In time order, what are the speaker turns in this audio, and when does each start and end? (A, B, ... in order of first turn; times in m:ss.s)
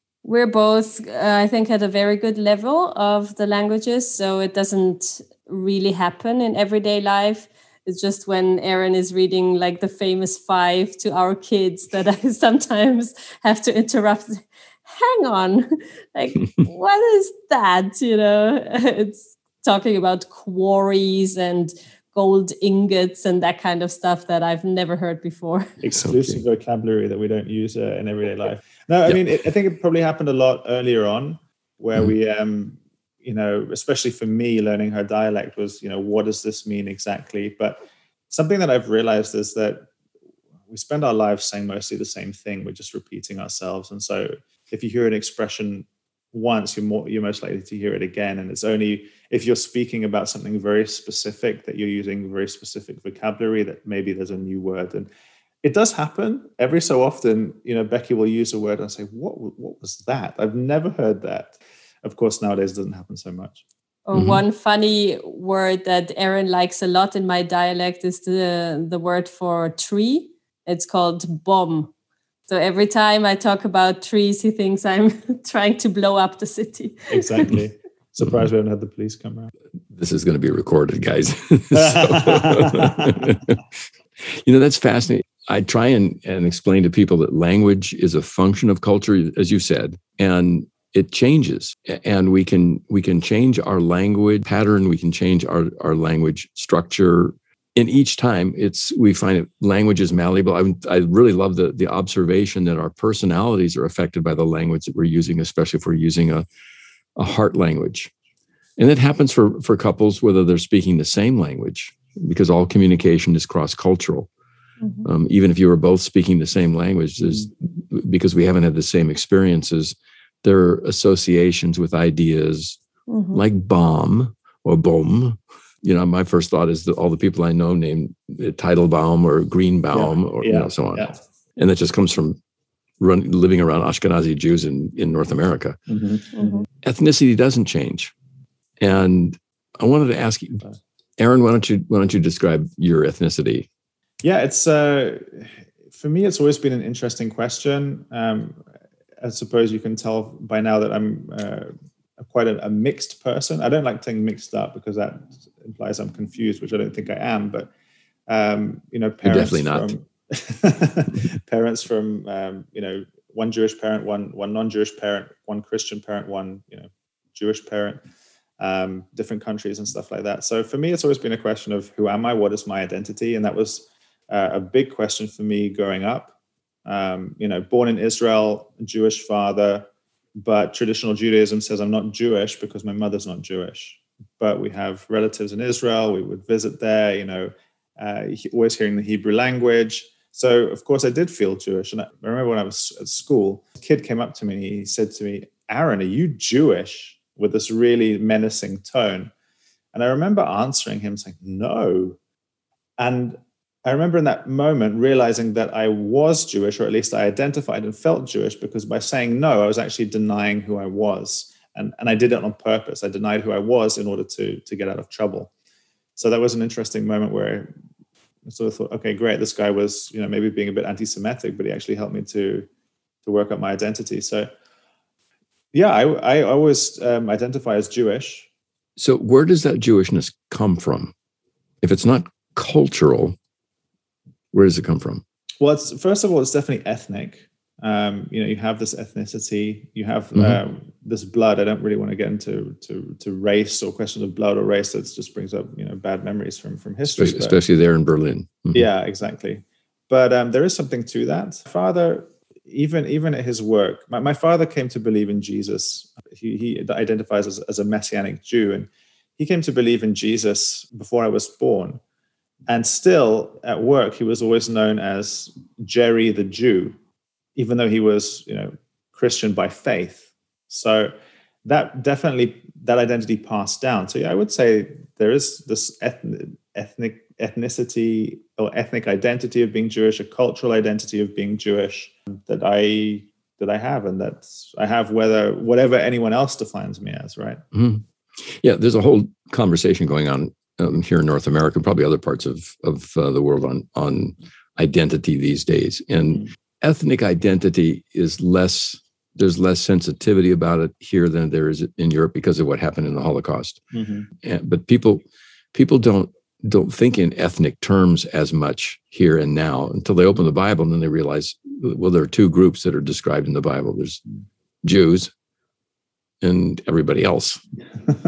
0:00.2-0:25.7 A
0:25.8-0:39.9 B
0:26.0-0:26.4 C
0:40.7-0:55.1 B
0:55.6-1:03.6 B
1:04.1-1:11.9 A
1:04.1-1:04.4 C
1:12.5-1:17.5 A
1:17.1-1:19.5 B
1:19.9-1:23.6 C
1:21.7-1:23.3 B
1:24.2-1:46.4 C
1:47.2-1:48.1 C
1:48.8-1:54.3 C
1:55.0-2:02.8 C
2:03.1-2:03.4 A
2:03.3-2:12.4 C
2:09.9-2:11.2 B
2:13.0-2:15.8 C
2:15.9-2:16.6 B
2:16.4-2:16.6 A
2:16.8-2:18.1 C
2:18.8-2:20.6 C
2:21.2-2:23.7 C
2:24.2-2:28.6 B
2:29.2-2:37.7 B
2:38.3-2:48.0 B
2:39.2-2:39.9 C
2:48.6-2:56.3 B
2:56.8-3:19.3 B
3:19.9-3:22.2 B
3:23.0-3:35.5 B
3:36.2-3:37.7 B
3:38.5-3:42.7 B
3:43.2-3:44.5 B
3:45.7-3:48.5 B
3:49.0-3:51.1 C
3:51.8-3:53.4 C
3:54.5-3:55.2 C
3:55.6-4:07.6 B
4:00.3-4:00.6 C
4:07.1-4:08.9 C
4:08.7-4:22.0 B
4:22.7-4:26.9 B
4:27.6-4:31.1 B
4:31.6-4:47.6 B
4:47.7-5:03.8 C
5:03.9-5:04.3 B
5:04.4-5:14.2 C
5:14.8-5:15.3 C
5:16.4-5:17.6 C